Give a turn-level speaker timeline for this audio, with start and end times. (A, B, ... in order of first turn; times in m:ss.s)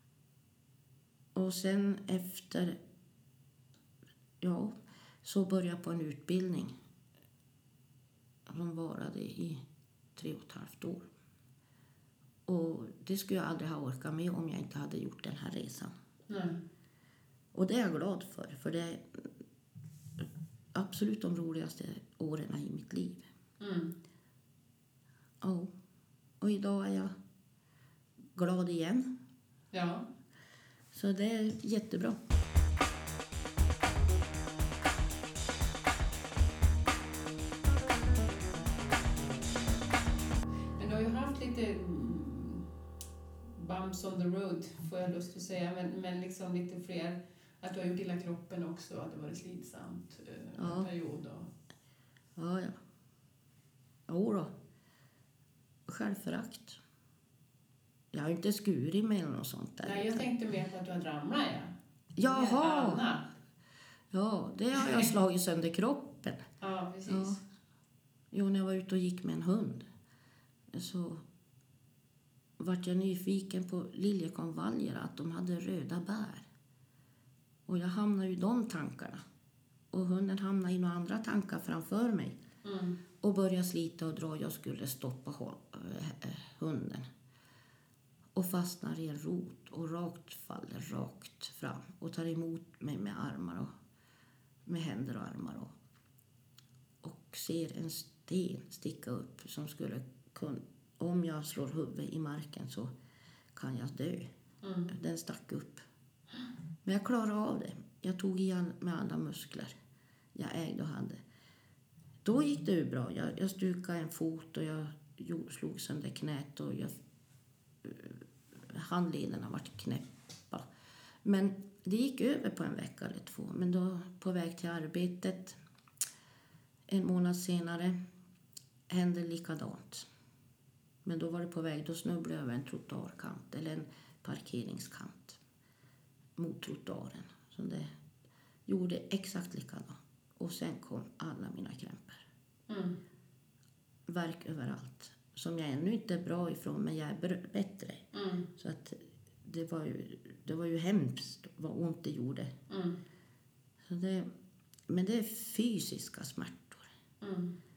0:01.4-0:02.8 A
0:04.4-0:06.7 A
0:08.5-0:09.6 A
0:10.2-0:11.1 A
0:12.5-0:15.9 A
0:16.3-0:16.6 B
0:17.5-0:19.0 A
0:20.7-0:23.3 A
0:23.6-0:24.0 B
0:25.4-0:25.7 A
0:26.4-0:27.1 A
0:28.4-0:29.1 A
0:29.7-0:30.1 B
0:30.9-0:32.2 A
0:40.8-0:42.7 B
0:43.5-0:51.5 B
0:50.6-0:50.9 A
0:52.4-0:52.8 A
0:54.1-0:54.5 A
0:55.9-0:56.8 A
0:58.1-1:00.3 A
0:59.8-1:03.3 B
1:02.2-1:03.0 A
1:04.1-1:06.5 A
1:04.8-1:05.1 B
1:06.6-1:07.4 B
1:07.1-1:07.4 A
1:08.3-1:09.8 A
1:10.7-1:11.2 A
1:12.6-1:16.5 A
1:17.7-1:19.2 A
1:19.9-1:22.4 A
1:22.6-1:23.0 B
1:23.2-1:27.1 A
1:28.4-1:33.7 A
1:34.7-1:35.7 A
1:37.0-1:42.9 A
1:43.5-1:44.3 A
1:44.6-1:44.9 B
1:44.9-1:45.8 A
1:46.8-1:49.8 A
1:50.4-1:51.2 A
1:52.2-1:56.9 A
1:57.8-1:58.2 A
1:58.7-2:00.6 A
2:01.2-2:05.6 A
2:06.9-2:08.0 A
2:08.9-2:10.1 A
2:11.0-2:15.4 A
2:16.4-2:17.9 A
2:18.7-2:22.2 A
2:22.7-2:23.0 B
2:24.1-2:32.5 A
2:28.1-2:28.5 B
2:32.7-2:33.0 B
2:33.9-2:34.3 A
2:34.9-2:36.9 A
2:37.2-2:37.6 B